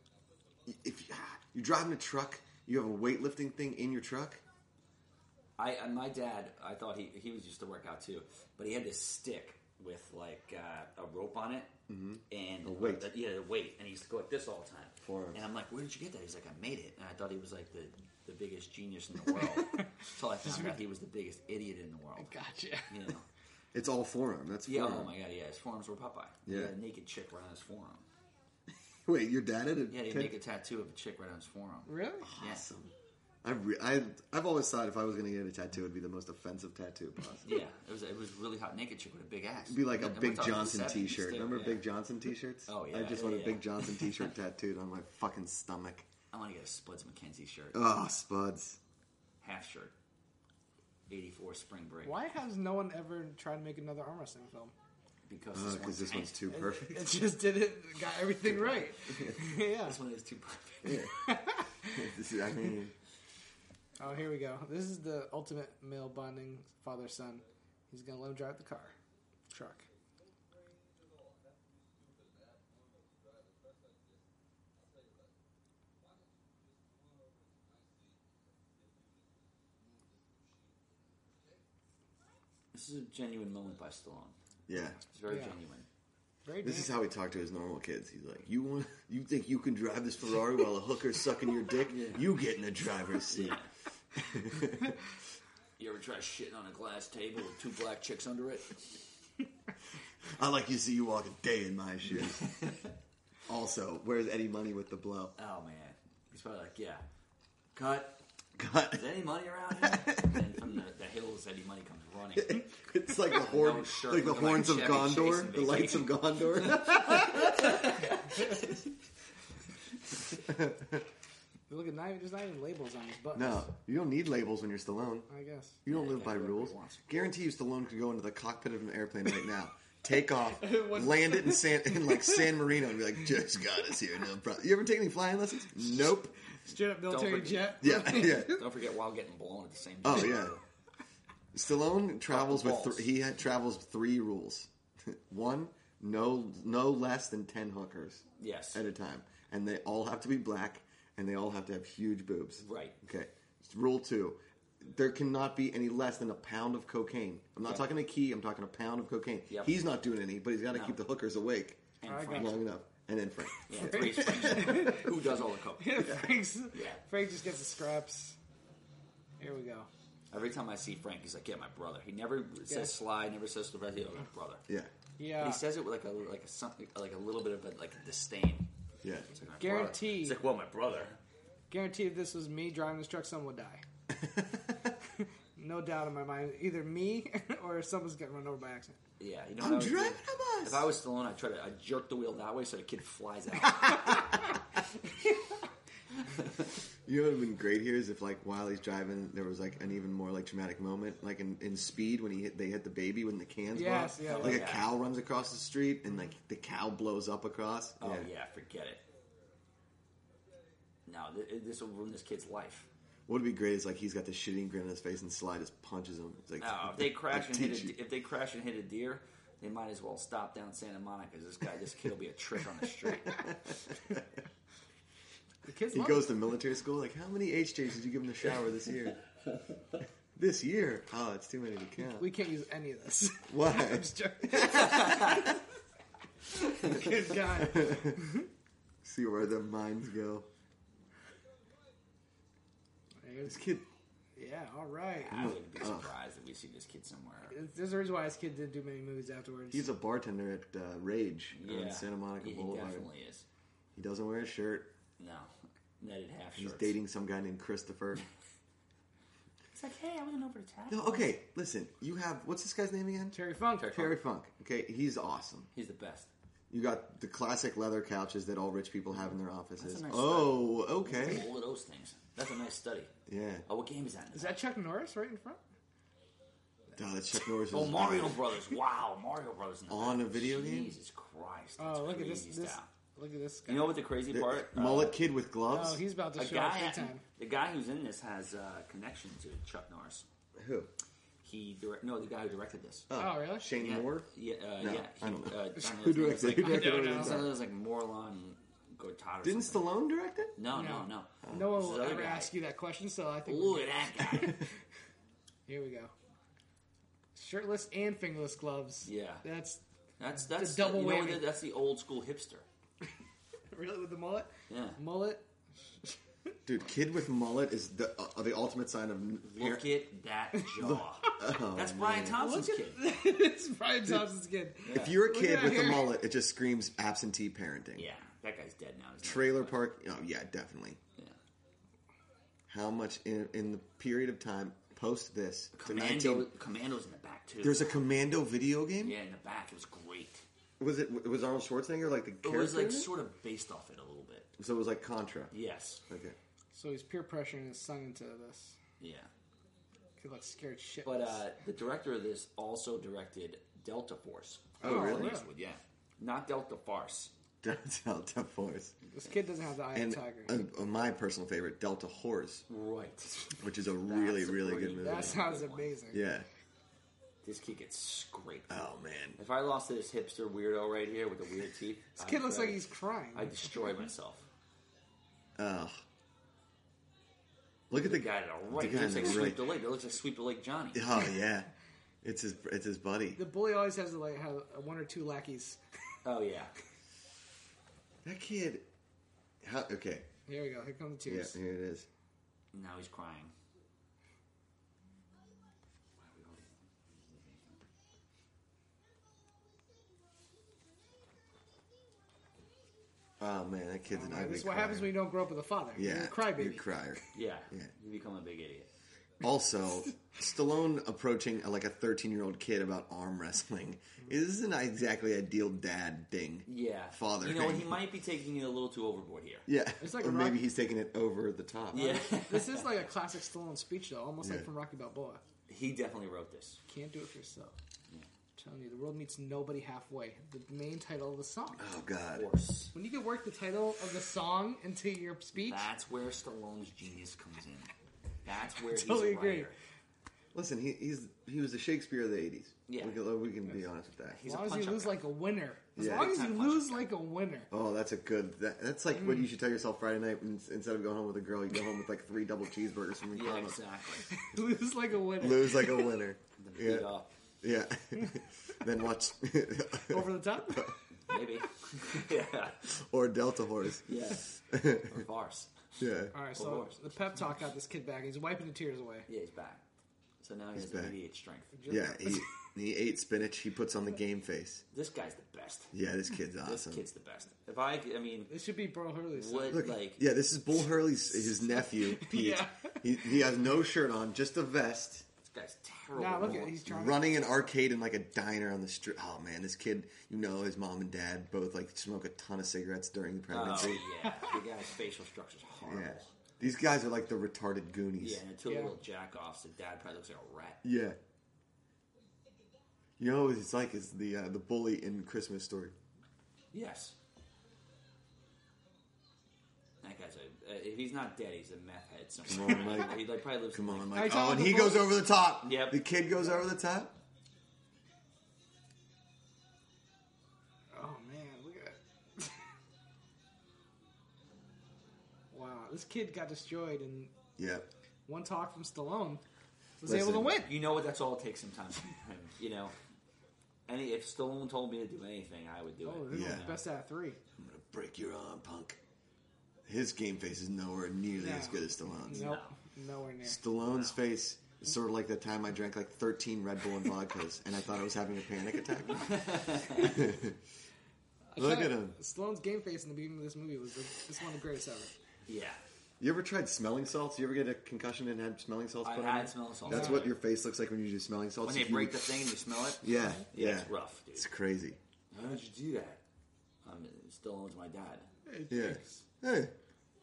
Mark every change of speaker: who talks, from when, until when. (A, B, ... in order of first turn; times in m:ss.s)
0:00.7-0:04.4 A
0:05.6-0:11.7 B
0:11.9-0:13.1 A
0:12.3-0:22.4 B
0:15.0-0:15.4 A
0:20.4-0:20.8 C
0:22.2-0:23.0 C
0:22.9-0:23.2 B
0:23.7-0:25.1 A
0:24.7-0:28.0 B
0:26.5-0:26.8 A
0:29.1-0:30.3 A
0:29.9-0:32.6 B
0:31.9-0:32.3 C
0:32.2-0:32.9 A
0:33.4-0:37.6 A
0:37.4-0:41.8 B
0:39.7-0:46.1 A
0:42.7-0:44.3 B
0:46.3-0:47.9 B
0:47.7-0:48.8 A
0:49.4-0:49.9 B
0:51.1-0:52.2 B
0:52.0-0:54.7 C
0:55.3-0:56.5 B
0:55.5-0:57.1 A
0:56.5-1:00.0 C
0:58.7-1:01.1 B
1:00.8-1:01.1 A
1:01.2-1:02.1 C
1:01.9-1:03.0 A
1:04.0-1:09.0 C
1:09.5-1:09.9 C
1:22.7-1:24.4 B
1:24.7-1:25.0 A
1:25.1-1:25.9 B
1:25.3-1:25.6 C
1:26.5-1:26.9 C
1:26.6-1:33.6 A
1:31.9-1:32.3 B
1:33.3-1:33.7 B
1:34.2-1:35.0 A
1:35.8-1:39.0 B
1:40.3-1:42.6 A
1:42.2-1:42.9 B
1:43.5-1:45.3 A
1:45.4-1:47.0 B
1:47.8-1:48.2 B
1:48.6-1:49.1 A
1:48.9-1:52.7 B
1:49.8-1:50.6 A
1:52.4-1:58.0 A
1:53.3-1:58.8 B
2:00.3-2:01.1 A
2:01.7-2:03.7 C
2:03.4-2:05.3 A
2:05.3-2:05.8 C
2:05.9-2:16.4 A
2:05.9-2:07.0 B
2:10.6-2:12.5 C
2:16.7-2:18.7 C
2:17.0-2:20.6 B
2:17.8-2:18.6 A
2:20.0-2:20.6 A
2:21.5-2:45.0 A
2:22.3-2:23.1 B
2:28.4-2:28.8 B
2:32.6-2:33.0 B
2:39.5-2:39.8 B
2:40.7-2:41.0 B
2:42.0-2:42.6 B
2:42.1-2:42.5 C
2:43.7-2:47.0 B
2:43.8-2:45.1 C
2:45.8-2:48.4 C
2:49.4-2:49.9 C
2:50.3-2:54.6 B
2:52.7-2:52.9 C
2:55.2-2:55.6 C
2:55.4-2:58.7 B
2:59.0-2:59.3 A
2:59.3-3:01.2 B
2:59.6-3:00.4 C
3:01.7-3:03.8 C
3:04.1-3:04.9 A
3:05.6-3:09.0 C
3:09.2-3:14.6 B
3:09.6-3:10.9 A
3:16.3-3:16.6 B
3:17.1-3:28.3 A
3:23.7-3:24.6 C
3:24.3-3:24.9 B
3:28.0-3:29.0 B
3:31.1-3:32.9 B
3:33.3-3:38.0 A
3:36.6-3:43.5 B
3:43.3-3:44.2 A
3:45.7-3:46.3 C
3:45.9-3:49.2 A
3:50.4-3:52.3 A
3:52.0-3:55.6 C
3:53.5-3:55.6 A
3:54.9-3:55.4 B
3:56.5-3:58.5 C
3:57.5-3:58.2 A
3:59.0-4:00.5 A
4:03.2-4:03.7 C
4:03.5-4:03.9 A
4:04.4-4:05.5 C
4:05.2-4:07.6 B
4:05.3-4:06.1 A
4:07.5-4:09.9 C
4:09.7-4:13.1 A
4:11.5-4:13.5 B
4:14.0-4:14.9 A
4:15.2-4:17.0 B
4:16.6-4:18.2 A
4:19.7-4:21.4 B
4:20.9-4:25.7 A
4:23.3-4:24.0 C
4:23.8-4:24.2 B
4:25.7-4:26.3 B
4:26.7-4:31.5 A
4:29.8-4:33.1 B
4:33.3-4:33.7 A
4:33.7-4:34.6 B
4:34.3-4:35.6 C
4:37.0-4:38.6 A
4:37.7-4:42.9 B
4:39.9-4:40.9 A
4:41.8-4:44.0 C
4:43.7-4:45.2 B
4:44.3-4:46.0 A
4:45.7-4:47.2 C
4:46.3-4:50.3 B
4:50.6-4:50.9 A
4:51.4-4:53.1 B
4:53.1-4:54.3 A
4:53.1-4:53.7 C
4:53.8-4:59.9 B
4:54.8-4:57.6 A
4:56.5-4:57.4 C
4:59.4-5:00.6 A
5:00.6-5:02.5 B
5:00.7-5:04.7 C
5:01.4-5:01.7 A
5:03.5-5:04.6 B
5:05.7-5:06.1 C
5:07.4-5:09.8 C
5:09.0-5:09.4 B
5:10.2-5:12.6 B
5:10.4-5:11.4 C
5:13.7-5:16.2 C
5:14.7-5:15.0 B
5:16.7-5:19.8 A
5:19.5-5:23.0 B
5:20.8-5:22.4 A
5:22.3-5:26.2 C
5:24.9-5:25.2 B
5:24.9-5:28.1 A
5:28.0-5:29.7 B
5:29.2-5:31.0 A
5:32.7-5:36.5 A
5:35.8-5:38.0 B
5:37.6-5:39.2 A
5:39.0-5:40.4 B
5:40.8-5:43.1 A
5:42.4-5:44.5 B
5:44.6-5:45.5 A
5:45.5-5:46.0 B
5:46.1-5:46.4 A
5:46.7-5:48.8 C
5:49.0-5:49.3 B
5:50.2-5:51.4 C
5:51.0-5:57.3 B
5:54.8-5:55.4 A
5:54.8-5:55.5 C
5:57.6-5:58.9 A
5:59.1-6:00.6 C
5:59.9-6:02.7 A
6:02.7-6:06.0 B
6:03.5-6:05.4 A
6:05.0-6:06.2 C
6:06.1-6:06.5 A
6:07.4-6:08.8 B
6:08.7-6:09.4 A
6:09.4-6:14.5 B
6:12.2-6:13.7 C
6:15.6-6:16.0 A
6:17.9-6:19.8 A
6:17.9-6:21.1 B
6:20.9-6:21.7 A
6:22.2-6:23.4 A
6:23.4-6:25.8 C
6:26.2-6:26.7 B
6:28.2-6:28.9 A
6:29.6-6:30.3 A
6:30.5-6:31.6 C
6:31.3-6:32.1 A
6:32.7-6:33.5 B
6:36.2-6:37.7 B
6:43.4-6:45.2 A
6:44.1-6:46.9 C
6:46.0-6:47.9 A
6:47.3-6:48.9 B
6:49.4-6:58.0 A
6:56.7-6:59.7 B
6:59.7-7:02.1 A
7:00.0-7:00.6 C
7:01.9-7:03.0 B
7:01.9-7:05.4 C
7:04.4-7:04.7 A
7:05.7-7:06.8 B
7:06.9-7:07.8 C
7:08.6-7:11.8 C
7:11.8-7:12.5 A
7:12.4-7:12.9 B
7:12.9-7:15.9 C
7:15.6-7:17.9 B
7:18.4-7:19.8 B
7:18.8-7:19.7 C
7:20.5-7:24.4 A
7:22.9-7:23.2 B
7:24.3-7:25.2 B
7:24.4-7:27.7 C
7:26.0-7:26.4 A
7:26.0-7:27.1 B
7:27.7-7:33.8 A
7:29.1-7:29.5 C
7:33.4-7:34.3 B
7:34.3-7:36.2 C
7:35.3-7:37.1 A
7:36.6-7:37.3 B
7:37.6-7:40.9 A
7:40.1-7:41.0 C
7:41.3-7:42.9 B
7:42.8-7:44.2 A
7:44.1-7:45.9 B
7:44.7-7:45.2 A
7:46.0-7:46.4 A
7:46.3-7:49.3 C
7:46.6-7:47.0 B
7:49.3-7:49.8 B
7:50.4-7:51.7 B
7:50.8-7:51.1 A
7:51.7-7:52.5 C
7:51.9-7:54.8 A
7:54.9-7:55.9 B
7:55.9-7:57.0 A
7:56.6-7:58.5 B
7:58.5-7:59.8 C
7:59.3-8:00.2 B
7:59.7-8:05.3 A
8:01.5-8:03.2 C
8:05.4-8:06.8 B
8:06.2-8:07.6 C
8:06.4-8:14.1 A
8:13.5-8:16.3 B
8:14.2-8:14.6 C
8:15.8-8:18.4 A
8:18.2-8:20.8 B
8:18.6-8:19.0 C
8:20.8-8:21.2 A
8:23.2-8:26.0 A
8:26.7-8:27.2 B
8:30.0-8:34.2 B
8:32.5-8:37.2 A
8:34.1-8:35.3 C
8:35.6-8:36.0 B
8:40.9-8:42.5 C
8:45.5-8:47.3 C
8:47.6-8:47.9 A
8:48.3-8:49.4 C
8:50.0-8:50.7 C
8:50.0-8:50.6 A
8:50.6-8:52.9 B
8:53.9-8:56.8 B
8:56.0-8:57.4 C
8:56.3-8:56.8 A
8:57.6-8:59.0 A
8:59.9-9:02.5 A
9:01.4-9:03.6 C
9:02.3-9:02.8 B
9:03.4-9:10.6 A
9:03.9-9:04.2 B
9:09.1-9:10.3 B
9:11.5-9:15.2 C
9:11.6-9:12.2 A
9:15.5-9:15.8 B
9:16.2-9:25.0 A
9:19.0-9:20.4 B
9:19.9-9:20.3 C
9:21.6-9:24.5 B
9:25.3-9:26.2 B
9:26.8-9:28.3 B
9:28.5-9:29.2 C
9:28.7-9:29.7 A